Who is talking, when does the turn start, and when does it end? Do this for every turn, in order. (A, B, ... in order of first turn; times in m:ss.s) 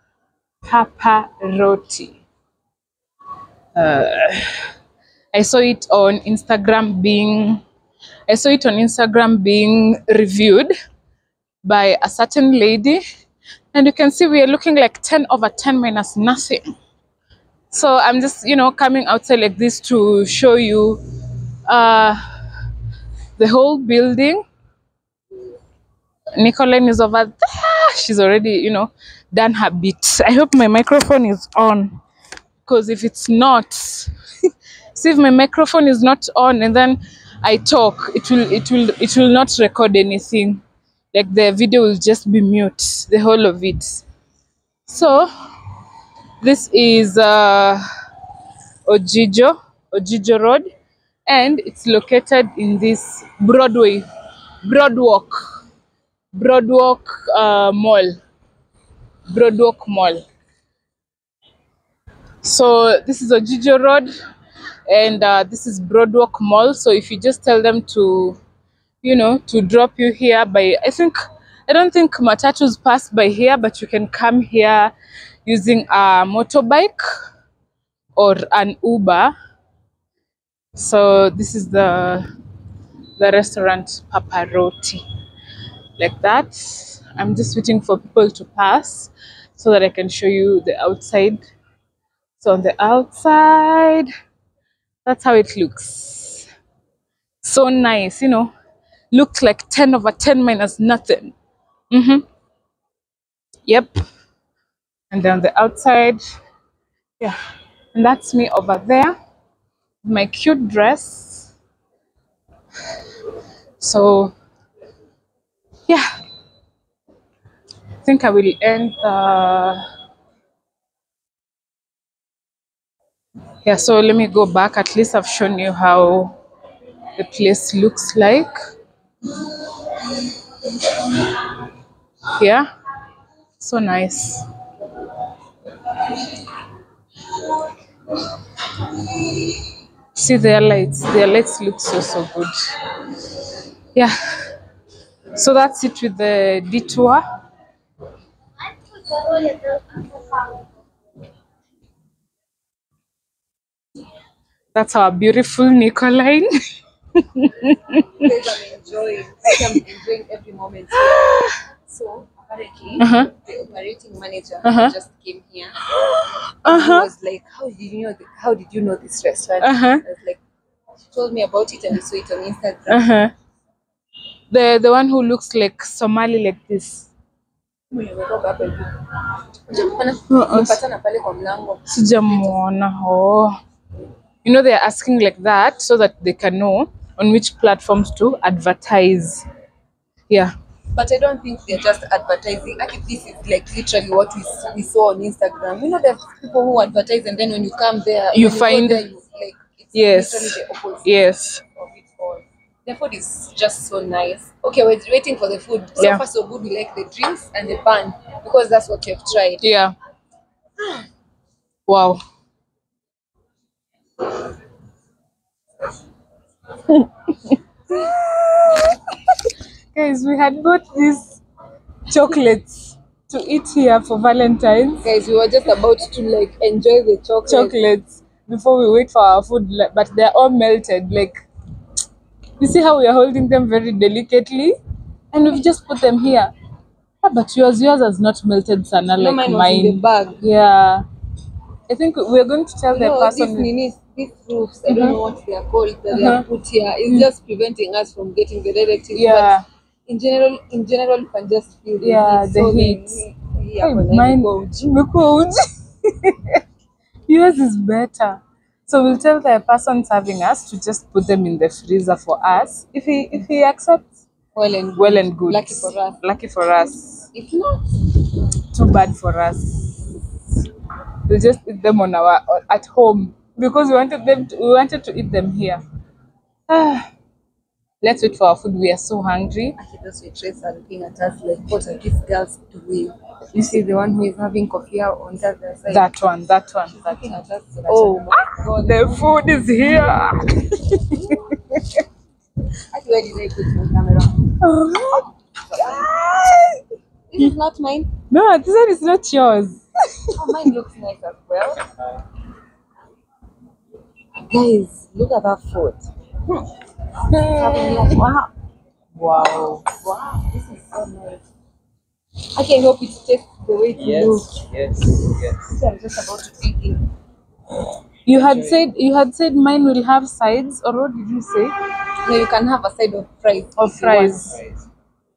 0:00.6-0:02.2 A
0:03.8-0:04.7 A
0:05.3-0:07.6 A
0:08.3-0:10.7 A
0:11.6-0:13.0 A
0:13.7-0:16.6 A
0:17.7-0:21.0 A
0:21.7-0:22.2 A
0:23.4-0:24.4 A
0:26.4-0:32.0 A
0:32.6-0:34.1 A
0:35.0-0:40.6 A
0:41.1-0:44.0 A
0:44.9-0:45.3 A
0:46.4-0:47.8 A
0:48.8-0:50.7 A
0:51.3-0:54.0 A
0:54.6-0:55.6 A
0:56.3-0:58.2 A
0:59.3-1:00.2 A
1:02.4-1:04.1 A
1:04.9-1:08.4 A
1:09.0-1:11.2 A
1:11.7-1:14.9 A
1:15.4-1:17.0 A
1:18.2-1:19.3 A
1:20.8-1:22.3 A
1:23.2-1:25.0 A
1:26.0-1:31.4 A
1:32.4-1:34.1 A
1:35.0-1:36.5 A
1:37.4-1:38.5 A
1:39.1-1:41.3 A
1:41.9-1:42.2 A
1:45.1-1:46.2 A
1:47.9-1:49.2 A
1:50.0-1:51.5 A
1:53.8-1:54.3 A
1:58.0-1:59.8 A
2:03.6-2:06.4 A
2:07.2-2:08.5 A
2:12.4-2:12.7 A
2:13.6-2:14.5 A
2:20.2-2:22.5 A
2:25.4-2:27.2 A
2:29.1-2:30.5 B
2:34.8-2:36.5 A
2:37.2-2:38.3 A
2:38.2-2:45.8 B
2:41.2-2:41.5 A
2:43.0-2:43.3 A
2:44.6-2:44.9 A
2:46.1-2:47.1 A
2:46.6-2:50.4 B
2:49.6-2:50.0 A
2:51.1-2:53.0 B
2:52.9-2:53.3 A
2:54.5-2:57.1 A
2:57.9-2:59.0 B
2:59.7-3:02.6 B
3:00.3-3:00.8 A
3:01.9-3:03.6 A
3:04.4-3:09.4 A
3:11.0-3:21.1 B
3:18.3-3:19.0 A
3:19.9-3:21.6 A
3:21.8-3:29.6 B
3:29.6-3:29.9 A
3:31.9-3:32.2 A
3:37.9-3:41.4 A
3:42.1-3:45.0 A
3:45.0-3:47.8 B
3:47.5-3:51.3 A
3:52.6-3:54.8 A
3:55.3-3:56.5 A
3:57.2-4:01.1 A
3:59.2-4:00.4 B
4:01.9-4:03.7 A
4:02.9-4:14.7 B
4:04.9-4:05.2 A
4:06.1-4:06.4 A
4:09.1-4:09.6 A
4:12.0-4:13.2 A
4:13.8-4:16.6 A
4:17.3-4:24.1 A
4:24.6-4:26.2 B
4:25.0-4:27.3 A
4:27.3-4:28.0 B
4:28.7-4:30.1 A
4:31.3-4:35.8 A
4:36.7-4:37.1 A
4:38.0-4:39.8 A
4:39.8-4:46.1 B
4:43.5-4:43.8 A
4:45.9-4:51.8 A
4:47.0-4:49.6 B
4:52.9-4:54.6 B
4:54.6-4:56.8 A
4:55.2-4:56.1 B
4:57.3-4:58.1 B
4:58.3-5:00.3 A
5:00.4-5:01.8 B
5:04.4-5:06.7 B
5:07.3-5:08.5 B
5:07.3-5:08.2 A
5:09.2-5:09.8 A
5:10.0-5:11.4 B
5:12.5-5:14.6 B
5:14.0-5:15.8 C
5:15.7-5:17.1 B
5:18.3-5:21.8 A
5:18.3-5:18.8 C
5:22.2-5:24.5 B
5:23.8-5:24.5 A
5:24.5-5:24.8 C